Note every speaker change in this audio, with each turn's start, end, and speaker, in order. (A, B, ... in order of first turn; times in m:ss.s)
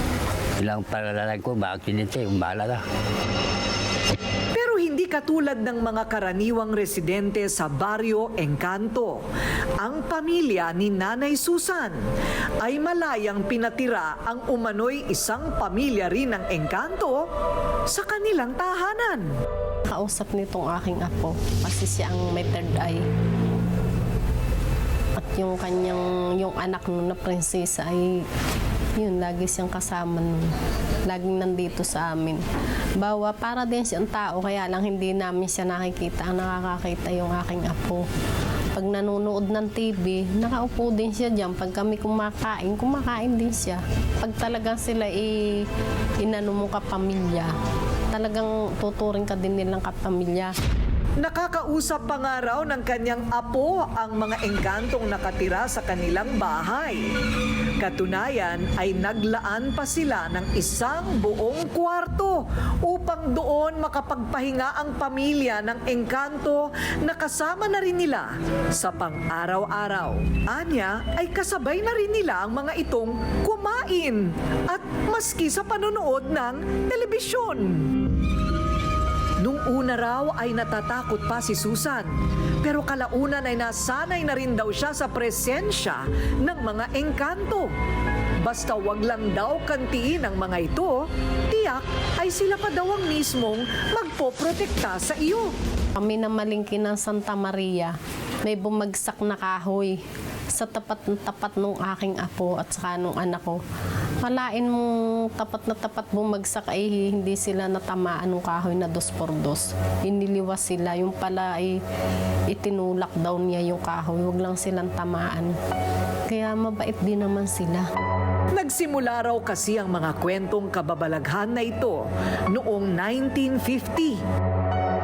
0:00.6-0:02.8 A
0:04.5-0:09.2 B
0:09.8-0:12.0 B
0:12.6-0:17.3 B
0:17.9-0:19.3 B
0:19.9-0:23.0 C
0:25.2-0:28.2 C
0:29.0-0:30.5 C
0:31.1-0:32.4 C
0:33.0-0:38.1 C
0:38.8-0:45.7 C
0:46.2-0:47.5 C
0:48.1-0:50.5 C
0:51.2-0:57.1 B
0:57.8-1:17.9 B
1:19.4-1:22.1 B
1:22.6-1:27.7 B
1:28.4-1:35.5 B
1:36.0-1:40.0 C
1:40.6-1:43.6 C
1:44.2-1:51.8 C
1:52.5-1:55.5 C
1:56.3-1:57.9 C
1:58.6-2:04.2 B